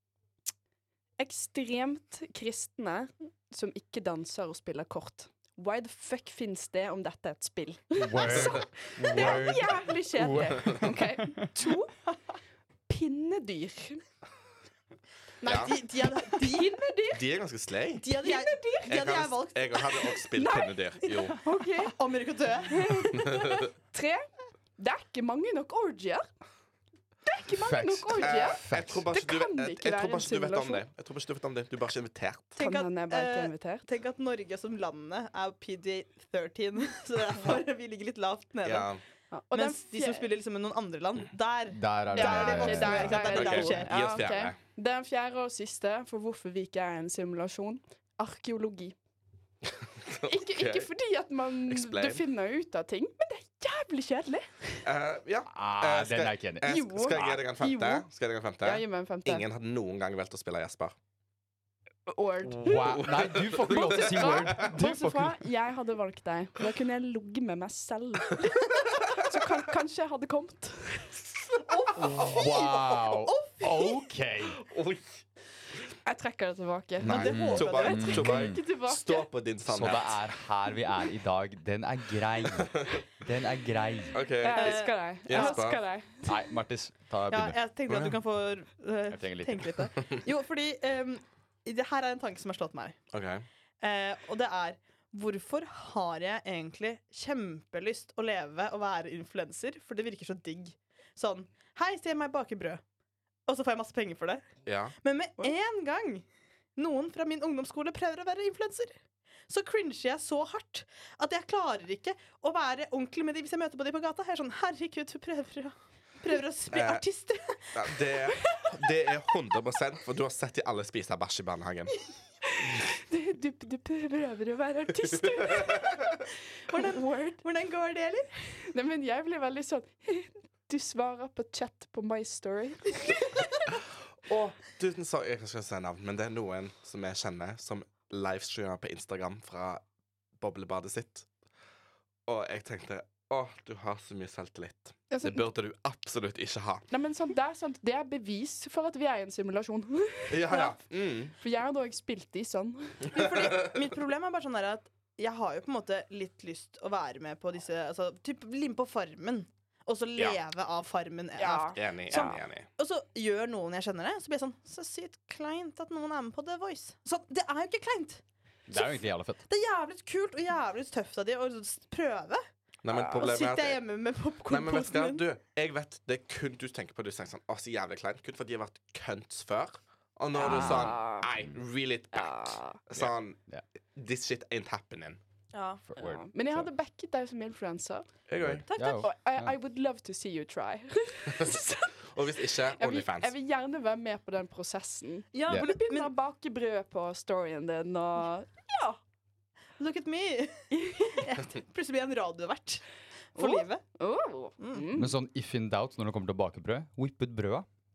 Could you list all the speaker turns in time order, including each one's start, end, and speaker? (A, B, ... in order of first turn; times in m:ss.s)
0:01.2-0:11.9 A
0:08.0-0:11.5 B
0:08.3-0:08.6 C
0:12.9-0:14.0 A
0:15.4-0:16.8 D
0:15.4-0:15.7 C
0:15.5-0:17.2 A
0:17.1-0:18.0 C
0:18.0-0:20.6 D
0:18.2-0:19.0 A
0:18.9-0:21.4 C
0:20.4-0:22.0 A
0:21.3-0:23.2 D
0:22.6-0:26.3 A
0:23.3-0:23.6 C
0:27.2-0:30.8 A
0:27.5-0:29.0 B
0:28.2-0:32.5 C
0:32.6-0:33.9 A
0:32.6-0:38.9 D
0:38.6-0:39.0 C
0:39.3-0:40.3 A
0:39.5-0:44.1 D
0:41.7-0:43.8 B
0:42.1-0:49.0 A
0:43.3-0:44.6 C
0:50.0-0:50.9 C
0:50.2-0:54.9 A
0:51.7-0:52.2 C
0:54.8-1:00.9 C
0:55.5-0:57.4 B
0:56.6-0:58.0 A
0:58.6-0:59.4 A
1:02.1-1:03.0 A
1:02.5-1:05.4 B
1:03.0-1:03.5 C
1:03.6-1:11.2 A
1:11.7-1:14.0 D
1:12.0-1:14.6 B
1:14.6-1:15.2 C
1:16.0-1:19.3 A
1:17.0-1:18.6 B
1:17.0-1:18.2 D
1:17.5-1:20.2 C
1:19.7-1:24.2 B
1:24.1-1:25.8 C
1:24.4-1:26.5 A
1:24.5-1:25.6 D
1:26.2-1:28.2 B
1:27.3-1:33.0 D
1:29.1-1:29.9 B
1:33.1-1:33.4 C
1:33.8-1:42.8 D
1:43.5-1:44.4 D
1:44.6-1:44.9 C
1:45.0-1:49.0 D
1:49.5-1:57.7 D
1:56.7-1:57.0 C
1:57.7-2:01.9 C
1:58.3-1:58.7 A
2:02.4-2:06.1 A
2:06.7-2:08.3 D
2:06.7-2:07.4 A
2:08.6-2:13.4 A
2:14.3-2:19.8 C
2:20.4-2:21.2 C
2:22.3-2:26.8 C
2:25.1-2:25.4 A
2:26.9-2:30.8 A
2:30.3-2:31.3 C
2:31.4-2:33.3 A
2:33.1-2:41.8 D
2:41.4-2:42.4 A
2:41.7-2:42.7 C
2:42.8-2:48.2 D
2:48.7-2:49.4 B
2:49.5-2:52.4 D
2:52.8-2:53.8 C
2:53.1-2:55.2 D
2:54.5-3:03.4 C
3:00.4-3:01.3 A
3:00.4-3:01.0 B
3:02.1-3:02.8 A
3:02.9-3:03.6 B
3:03.9-3:05.2 C
3:05.5-3:05.8 D
3:05.9-3:06.7 B
3:06.0-3:08.0 A
3:08.3-3:08.6 C
3:08.4-3:09.5 B
3:08.7-3:09.1 D
3:09.0-3:12.0 A
3:12.1-3:13.3 C
3:12.7-3:19.0 A
3:15.3-3:16.1 D
3:19.8-3:22.8 D
3:20.7-3:21.2 A
3:23.3-3:23.8 D
3:23.4-3:25.1 A
3:24.6-3:24.8 D
3:24.9-3:27.6 B